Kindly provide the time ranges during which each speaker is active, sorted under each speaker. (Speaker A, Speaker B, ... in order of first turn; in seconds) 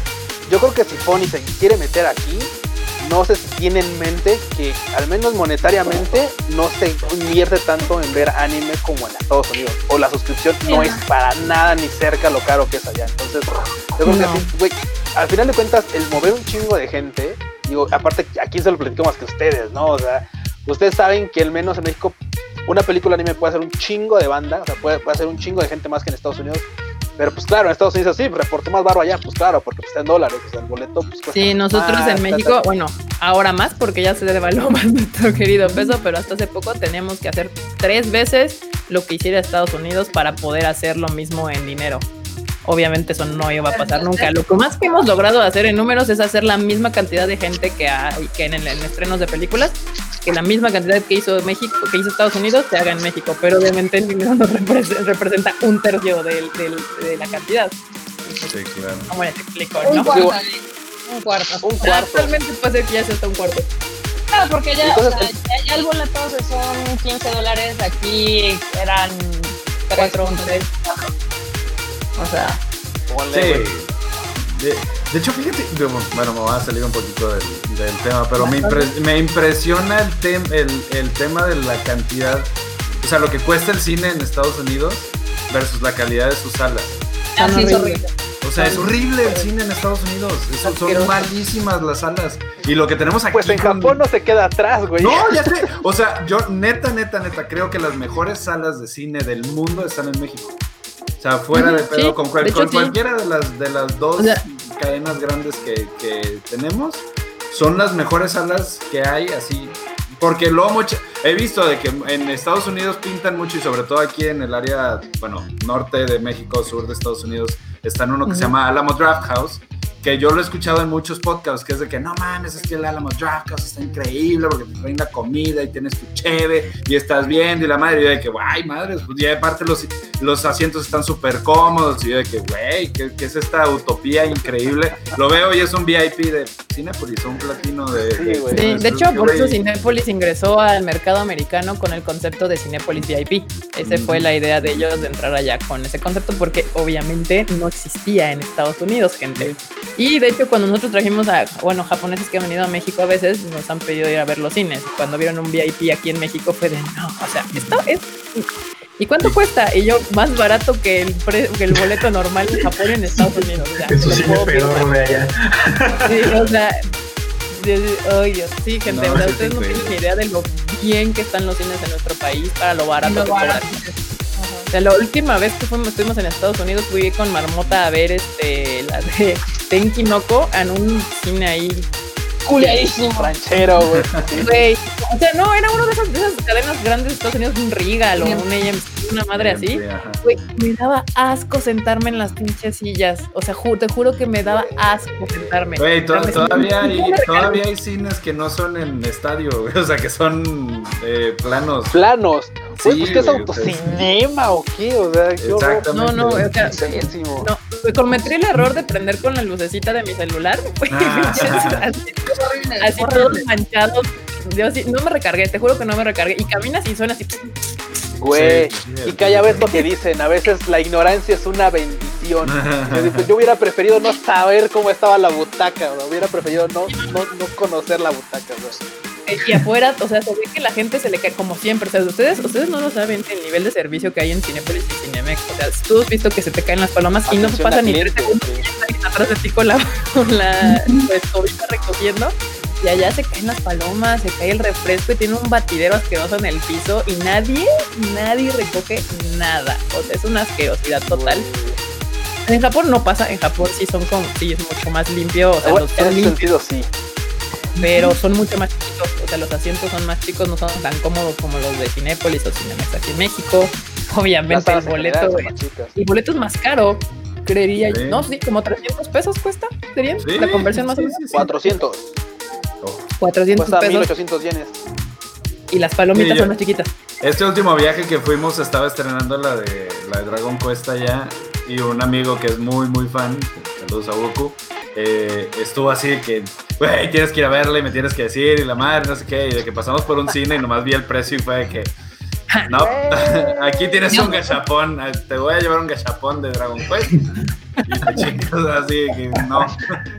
Speaker A: 0.5-26.7, 27.2-32.6, 60.1-60.4, 61.6-62.3, 64.8-65.3, 73.1-73.7, 93.3-95.7, 137.9-138.7, 182.6-184.5, 201.9-205.9, 206.6-207.5, 218.2-228.9, 237.3-238.7, 251.1-251.8, 255.6-256.9, 264.5-265.9, 271.3-272.1, 273.6-274.8, 292.7-294.2
Speaker B: 10.7-11.0, 14.1-14.5, 43.7-44.3, 59.8-61.8, 64.3-71.1, 72.2-72.6, 87.4-89.5, 90.7-91.2, 173.0-174.7, 182.5-183.3, 188.2-188.4, 211.3-211.7, 212.3-213.5, 257.8-258.1, 294.1-294.5
Speaker C: 31.3-42.1, 42.6-58.5, 59.1-60.1, 61.8-63.7, 70.0-70.7, 78.4-78.9, 87.3-88.1, 101.5-103.0, 118.3-118.5, 138.5-158.4, 159.0-164.9, 166.1-166.8, 167.5-173.7, 174.7-181.9, 184.4-197.6, 205.9-212.2, 212.8-217.5, 226.9-227.2, 229.3-251.5, 252.5-256.5, 257.8-271.8, 273.2-274.1, 275.7-276.9, 292.5-292.8
Speaker D: 58.5-59.1, 73.3-87.0, 88.4-94.0, 95.0-100.6, 101.2-139.6, 143.8-144.2, 168.9-170.0, 183.6-184.5, 189.3-190.3, 195.8-202.0, 202.7-203.9, 205.4-206.5, 210.9-211.8, 218.3-219.7, 222.4-223.3, 267.8-268.2, 270.2-271.5, 272.8-273.1, 276.1-276.5, 277.2-291.9, 292.7-297.2, 297.9-300.0
Speaker E: 163.9-166.4